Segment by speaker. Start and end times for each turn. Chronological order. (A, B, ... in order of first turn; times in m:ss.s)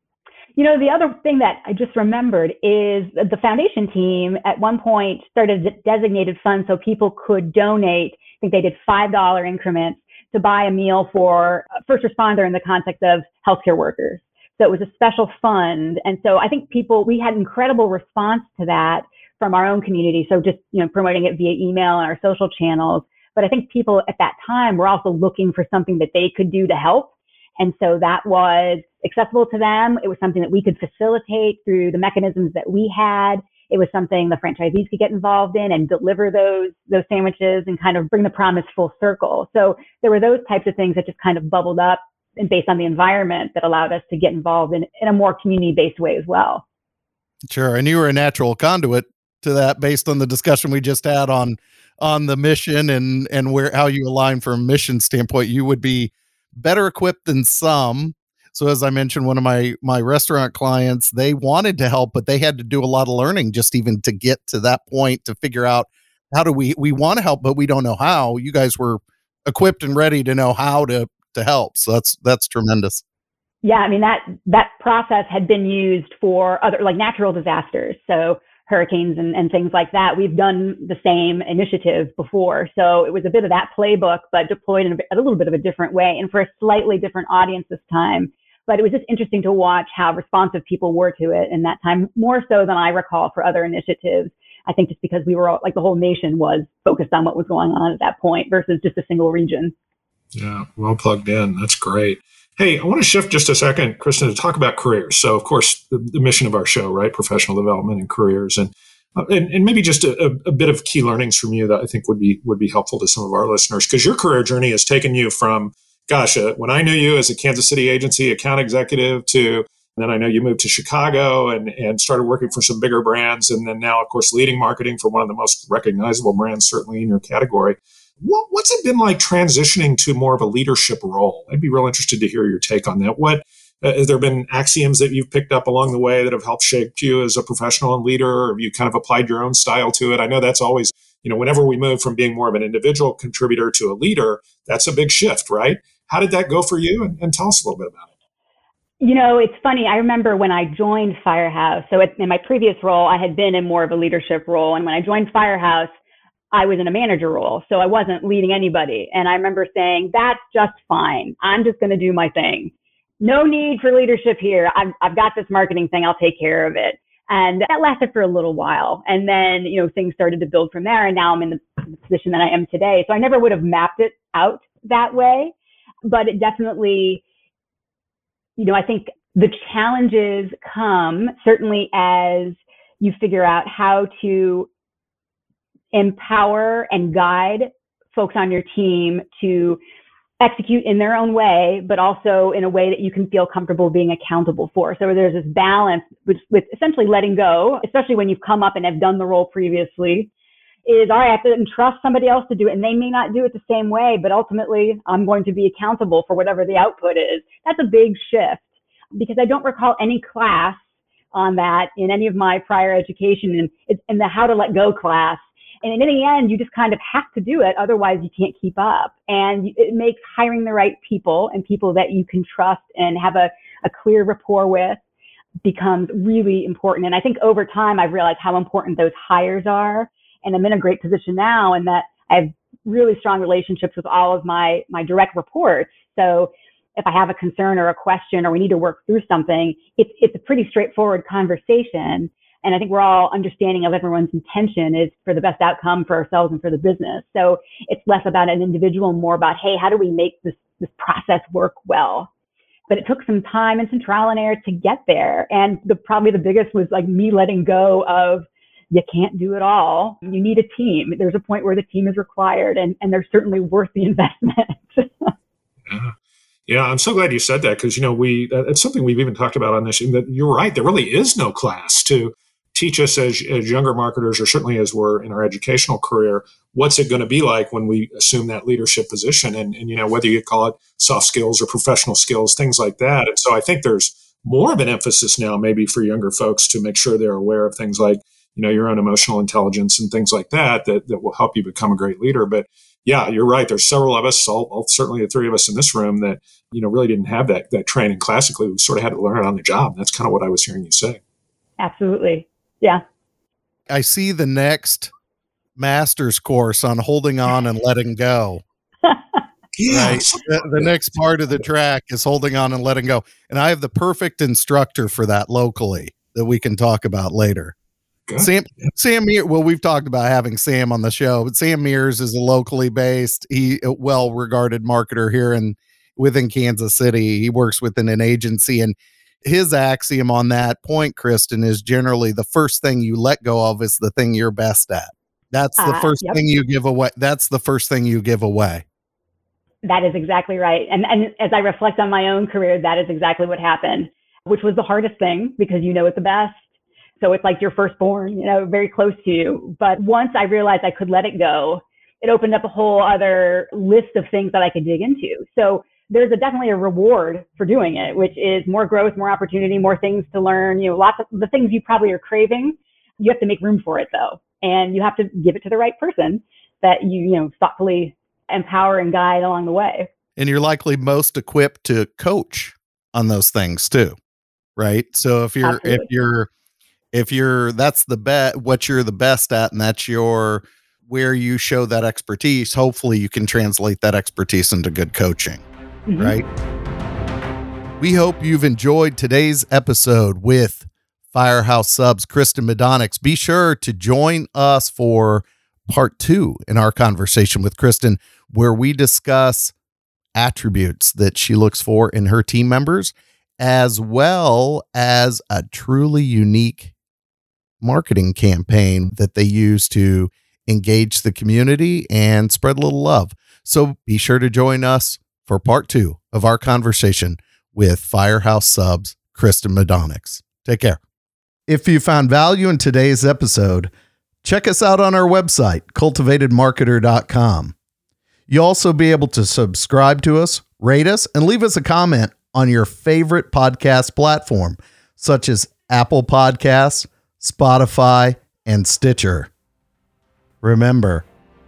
0:00.6-0:46.6 A
0:47.5-1:13.0 B
1:13.6-1:39.7 A
1:40.3-2:28.0 C
2:29.0-2:35.9 A
2:36.5-2:55.5 A
2:56.0-2:57.2 A
2:58.6-3:04.7 A
3:05.9-3:09.8 A
3:10.4-3:20.3 A
3:20.8-3:30.8 A
3:31.3-3:45.0 A
3:45.6-4:12.3 A
4:12.9-4:25.3 A
4:25.9-4:26.1 C
4:26.7-5:01.2 C
5:01.8-5:03.0 A
5:03.9-5:05.1 B
5:05.8-5:08.6 B
5:09.8-5:11.0 C
5:09.9-5:17.7 B
5:18.3-5:18.9 C
5:18.4-5:38.8 B
5:35.8-5:36.4 A
5:39.8-5:46.6 A
5:47.2-6:10.1 A
6:10.4-6:14.2 B
6:14.8-6:16.5 B
6:15.6-6:16.1 A
6:17.1-6:25.6 B
6:26.0-6:26.4 A
6:26.2-6:26.4 B
6:28.0-6:39.7 B
6:40.3-6:46.9 B
6:47.8-7:01.0 B
7:01.7-7:03.9 B
7:04.4-7:07.7 B
7:08.5-7:19.5 B
7:20.6-7:21.2 B